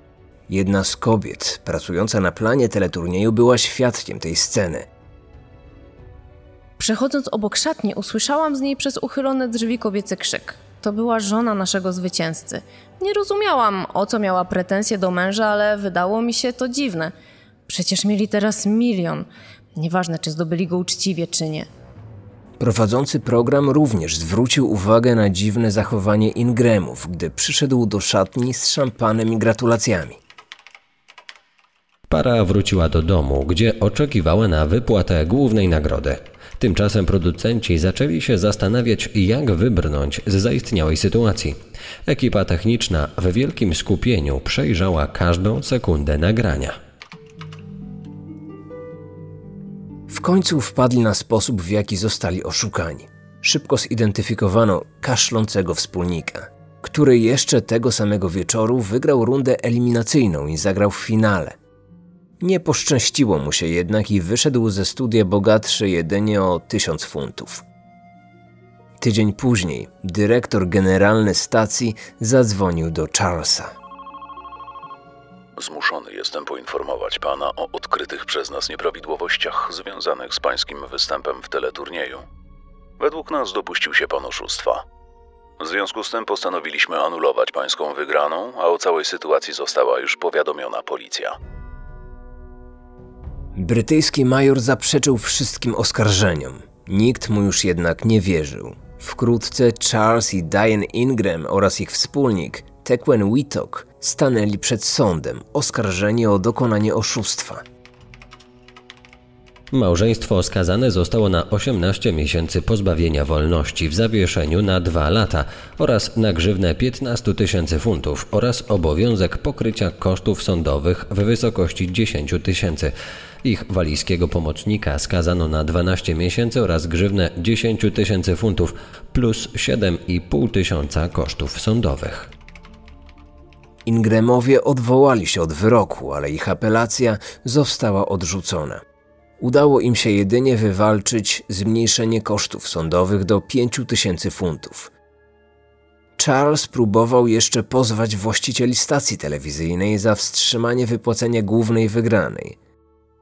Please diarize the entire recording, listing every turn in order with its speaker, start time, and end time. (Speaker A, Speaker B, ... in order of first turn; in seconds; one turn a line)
Speaker A: 0.5-4.9
Speaker B: 6.8-17.1
Speaker B: 17.7-21.7
Speaker A: 22.6-30.2
Speaker C: 32.1-46.8
Speaker A: 50.1-61.6
Speaker A: 62.4-67.6
Speaker A: 69.0-73.7
Speaker D: 75.6-82.2
Speaker D: 83.0-84.8
Speaker D: 85.6-91.3
Speaker A: 93.6-107.6
Speaker C: 109.7-122.9
Speaker C: 123.4-132.3
Speaker A: 133.9-138.8
Speaker A: 139.4-144.9
Speaker A: 146.2-152.6